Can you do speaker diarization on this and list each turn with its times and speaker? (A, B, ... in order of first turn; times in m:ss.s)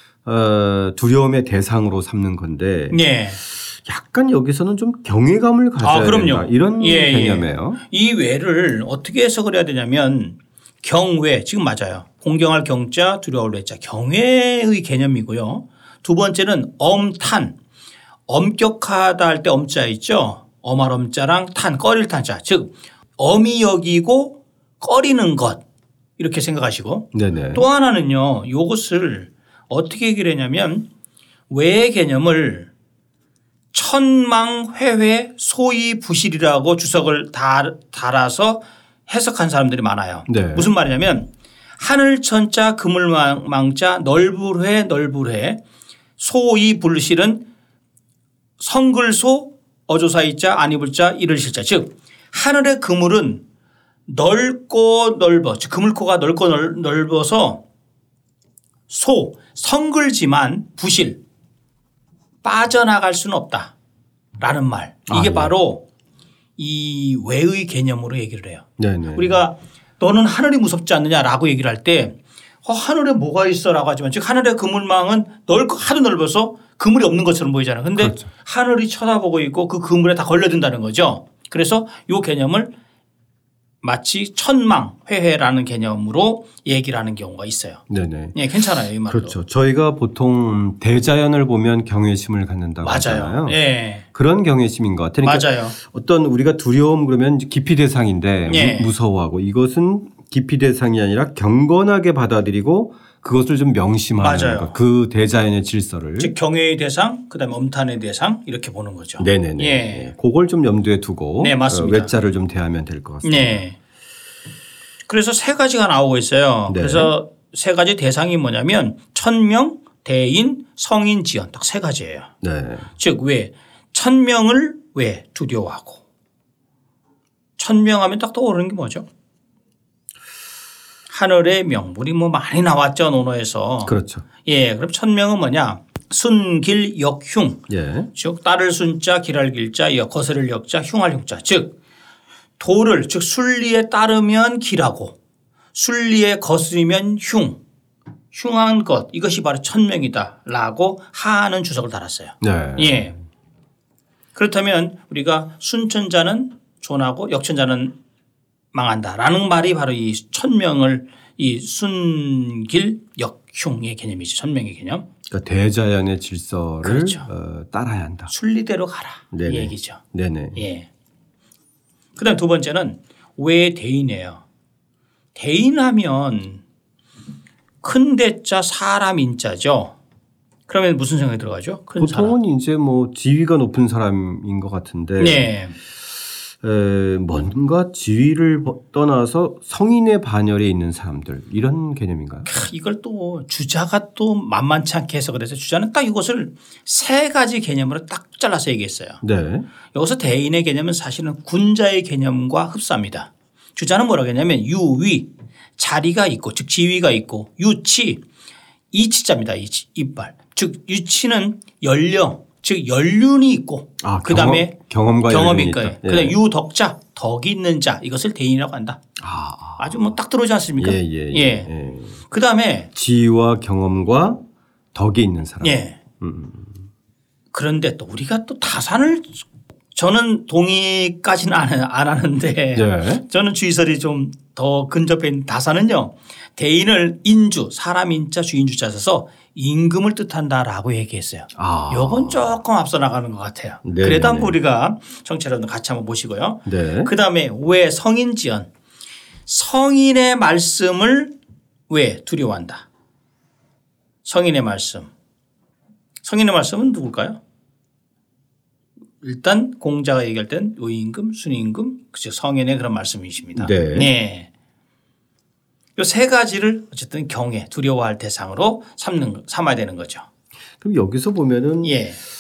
0:00.2-0:07.8 A
0:02.9-0:03.4 B
0:05.8-0:17.5 B
0:18.3-0:25.6 B
0:26.2-0:30.9 B
0:27.1-0:27.7 A
0:31.5-0:32.7 B
0:33.7-0:45.6 B
0:40.3-0:40.7 A
0:46.2-0:47.4 B
0:48.6-0:53.4 B
0:54.1-0:57.6 B
0:58.9-1:01.2 B
1:02.4-1:03.7 B
1:04.4-1:05.8 B
1:05.1-1:05.5 A
1:06.6-1:22.7 B
1:08.8-1:09.4 A
1:18.0-1:18.3 A
1:23.8-1:27.8 B
1:27.9-1:28.4 A
1:28.3-1:29.4 B
1:29.1-1:33.6 A
1:32.8-1:34.1 B
1:34.1-1:46.3 A
1:35.2-1:35.8 B
1:38.5-1:38.9 B
1:44.2-1:44.8 B
1:46.2-1:50.1 B
1:49.2-1:53.6 A
1:51.4-1:52.1 B
1:53.2-1:53.8 B
1:55.1-2:02.3 B
1:56.7-1:57.1 A
2:02.4-2:02.9 A
2:03.0-2:06.0 B
2:07.6-2:09.0 B
2:11.1-2:21.7 B
2:13.8-2:14.3 A
2:17.7-2:18.1 A
2:22.6-2:25.2 B
2:25.7-2:27.6 B
2:28.3-2:33.1 B
2:32.4-2:33.1 A
2:34.4-2:37.9 B
2:38.7-2:45.1 B
2:45.3-2:48.3 A
2:46.8-2:47.3 B
2:48.3-2:50.0 B
2:49.3-2:50.6 A
2:50.6-2:50.9 B
2:52.2-2:54.4 B
2:55.4-2:56.6 B
2:57.8-3:00.0 B
3:00.7-3:02.4 B
3:02.0-3:05.5 A
3:05.2-3:05.8 B
3:06.6-3:12.6 A
3:12.5-3:19.2 B
3:19.2-3:19.7 A
3:19.9-3:28.2 B
3:28.9-3:34.8 B
3:34.0-3:36.4 A
3:35.3-3:39.0 B
3:39.2-3:40.2 A
3:39.8-3:41.7 B
3:40.8-3:42.2 A
3:42.3-3:42.9 B
3:43.0-3:44.4 A
3:44.9-3:46.8 A
3:45.6-3:46.0 B
3:47.5-4:08.7 B
3:52.8-3:53.2 A
4:01.6-4:02.5 A
4:03.8-4:04.6 A
4:06.7-4:07.1 A
4:09.5-4:11.4 B
4:11.9-4:12.9 B
4:14.2-4:15.1 B
4:16.2-4:17.4 B
4:19.2-4:24.5 B
4:23.6-4:24.1 A
4:26.0-4:30.3 B
4:30.8-4:32.0 A
4:31.8-4:32.2 B